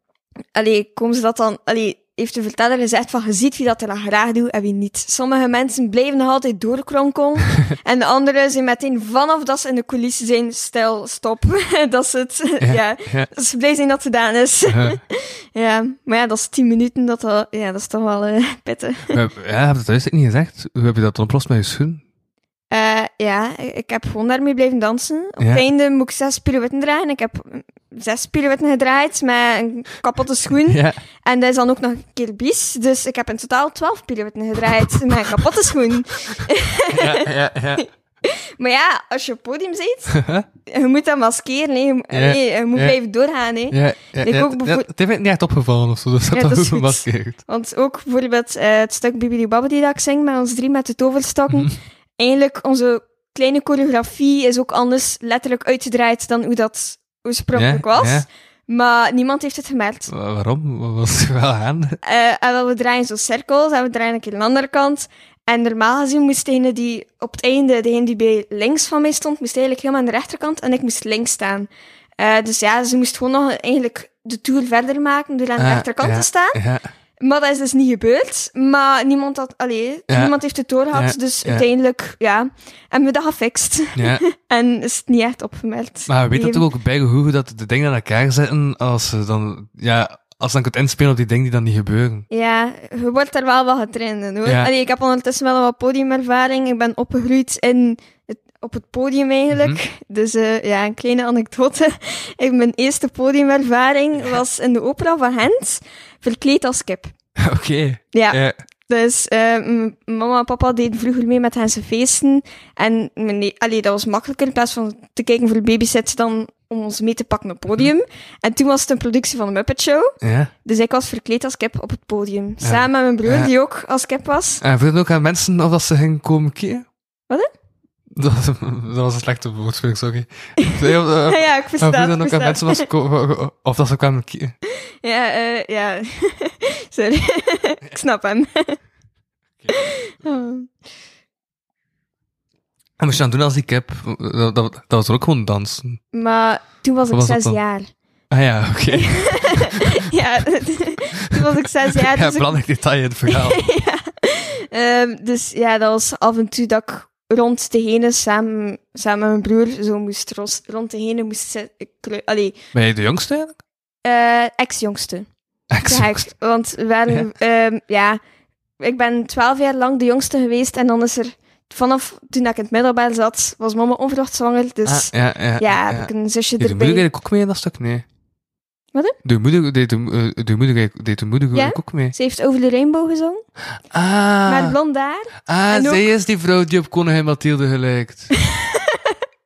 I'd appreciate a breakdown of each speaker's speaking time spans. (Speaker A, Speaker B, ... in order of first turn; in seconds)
Speaker A: 0.5-19.2, 22.7-37.2, 37.8-44.9, 46.3-60.1, 62.0-76.6, 77.2-86.6, 92.3-107.1, 108.1-124.6, 131.3-132.9, 135.0-138.8, 139.7-140.7, 146.1-147.9, 148.9-152.6, 153.3-162.6, 164.0-165.3, 165.8-168.2, 168.8-177.0, 181.5-183.4, 184.4-186.0, 188.5-189.1
Speaker B: 12.6-13.3, 14.7-15.0, 19.1-22.0, 30.7-31.0, 36.9-37.9, 40.1-40.5, 42.1-43.0, 43.7-47.4, 57.5-58.3, 60.1-62.0, 75.6-76.9, 80.1-80.3, 80.9-81.7, 84.0-84.2, 86.1-92.2, 94.4-94.7, 99.5-99.8, 107.4-108.5, 120.2-120.5, 122.6-123.5, 124.6-126.9, 128.1-134.6, 143.0-146.0, 147.1-147.6, 148.3-149.8, 151.3-153.6, 162.7-163.6, 165.7-166.2, 174.8-178.1, 179.2-182.1, 183.9-184.8, 185.4-188.3